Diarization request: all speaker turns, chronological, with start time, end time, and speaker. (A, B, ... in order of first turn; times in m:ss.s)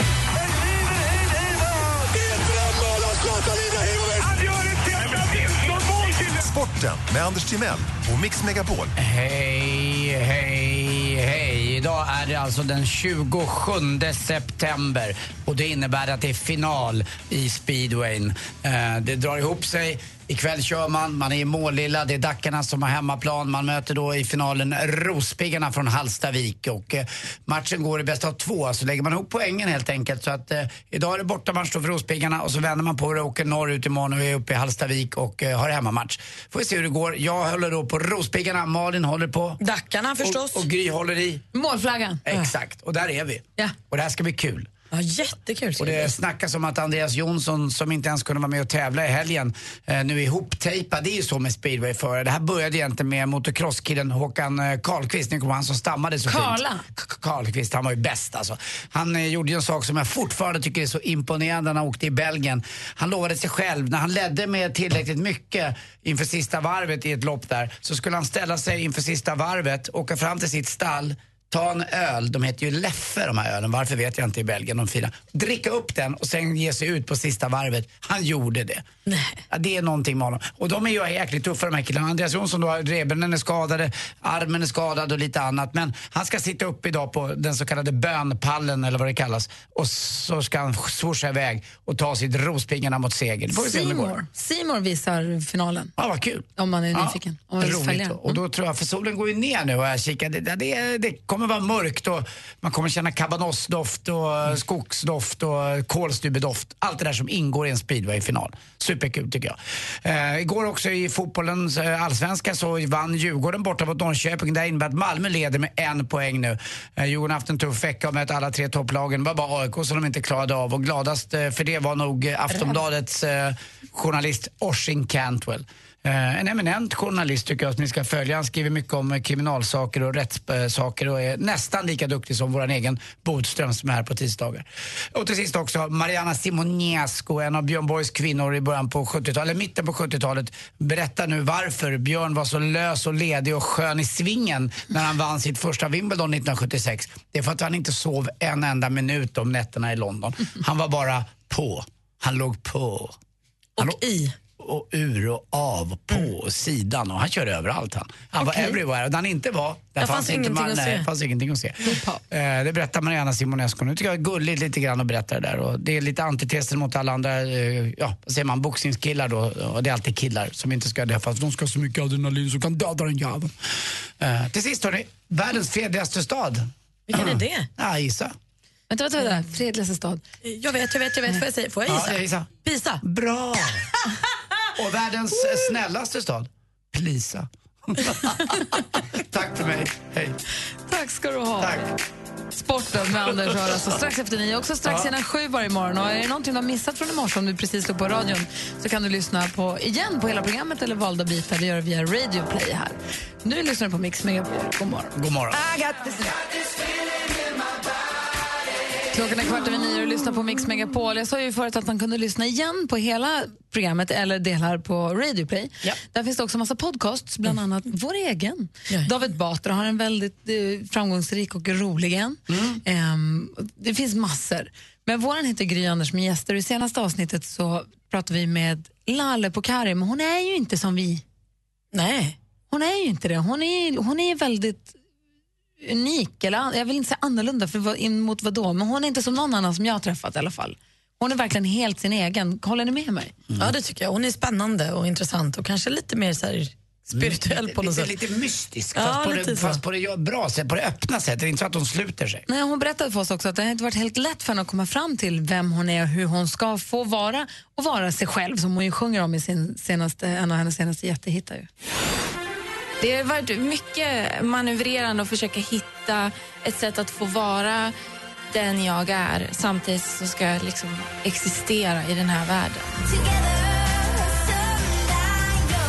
0:00.4-0:08.9 A
0:09.0-0:39.6 B
0:39.6-0:40.7 C
0:40.2-0:41.4 B
0:41.5-0:42.2 D
0:42.3-0:44.7 B
0:44.9-0:46.1 C
0:45.8-1:18.9 B
0:56.3-0:56.8 D
1:19.1-1:19.4 C
1:19.5-1:34.2 B
1:33.5-1:35.9 D
1:36.0-2:33.2 B
1:36.6-1:38.4 D
2:33.8-2:34.2 C
2:34.6-2:53.5 B
2:38.5-2:38.7 C
2:40.0-2:41.1 C
2:41.9-2:42.2 D
2:54.2-2:58.3 B
2:57.1-2:57.7 C
2:58.9-3:00.2 D
3:00.4-3:03.0 C
3:01.9-3:02.5 B
3:03.0-3:03.9 B
3:04.8-3:08.6 B
3:09.2-3:10.4 B
3:10.9-3:11.8 D
3:11.6-3:11.9 B
3:12.5-3:25.1 D
3:25.2-3:25.6 B
3:29.1-3:51.2 D
3:42.5-3:42.8 B
3:51.9-3:52.4 C
3:52.7-3:55.0 D
3:55.8-4:03.3 D
4:03.6-4:08.1 C
4:07.1-4:12.4 B
4:09.0-4:09.8 C
4:12.5-4:21.7 D
4:23.0-4:28.0 E
4:28.5-4:33.2 E